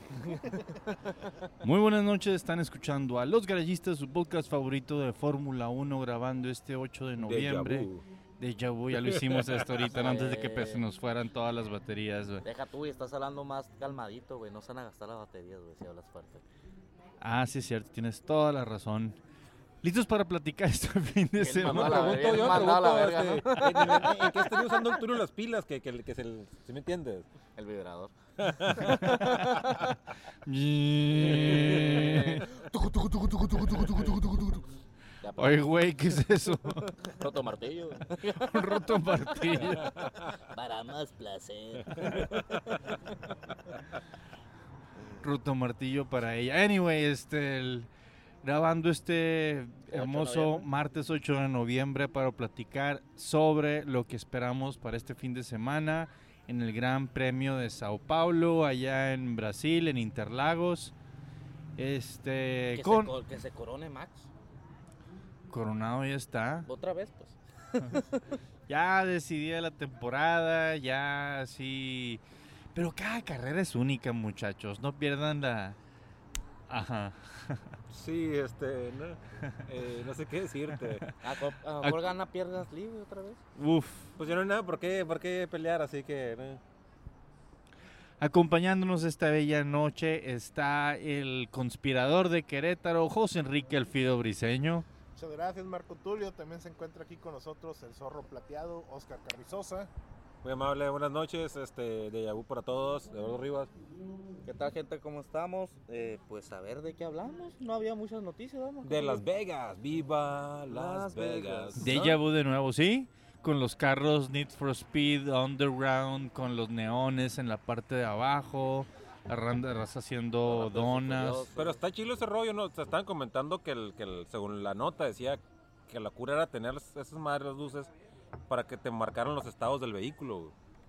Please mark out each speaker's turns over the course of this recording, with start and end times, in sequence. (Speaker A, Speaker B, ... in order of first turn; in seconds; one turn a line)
Speaker A: 1.6-12.4
Speaker B: 7.2-8.0
Speaker B: 8.9-9.8
Speaker C: 9.9-10.8
Speaker C: 12.4-16.4
Speaker A: 17.2-19.2
Speaker A: 19.8-22.7
Speaker C: 21.4-24.7
Speaker B: 21.7-27.3
Speaker A: 23.6-24.1
Speaker C: 27.6-28.1
Speaker B: 28.4-28.9
Speaker C: 28.6-29.9
Speaker A: 28.7-29.8
Speaker A: 30.4-32.5
Speaker C: 31.2-32.5
Speaker B: 31.2-32.0
Speaker B: 32.7-34.6
Speaker C: 35.2-35.7
Speaker A: 35.4-36.9
Speaker C: 36.8-39.8
Speaker A: 38.3-40.0
Speaker C: 40.4-43.0
Speaker B: 42.0-42.6
Speaker A: 45.2-47.9
Speaker A: 48.4-60.9
Speaker C: 49.9-50.7
Speaker A: 61.8-63.1
Speaker C: 62.7-64.3
Speaker A: 65.5-66.7
Speaker C: 66.7-68.3
Speaker A: 68.7-72.2
Speaker A: 72.7-75.8
Speaker A: 76.7-77.8
Speaker B: 77.9-81.0
Speaker C: 81.2-83.4
Speaker A: 81.8-82.1
Speaker A: 83.5-84.1
Speaker B: 84.2-86.6
Speaker A: 88.2-94.8
Speaker D: 95.1-99.9
Speaker B: 100.4-103.7
Speaker C: 104.4-109.2
Speaker B: 108.8-112.2
Speaker C: 110.7-111.9
Speaker A: 111.8-121.5
Speaker C: 120.4-121.8
Speaker B: 121.5-127.9
Speaker B: 128.5-130.5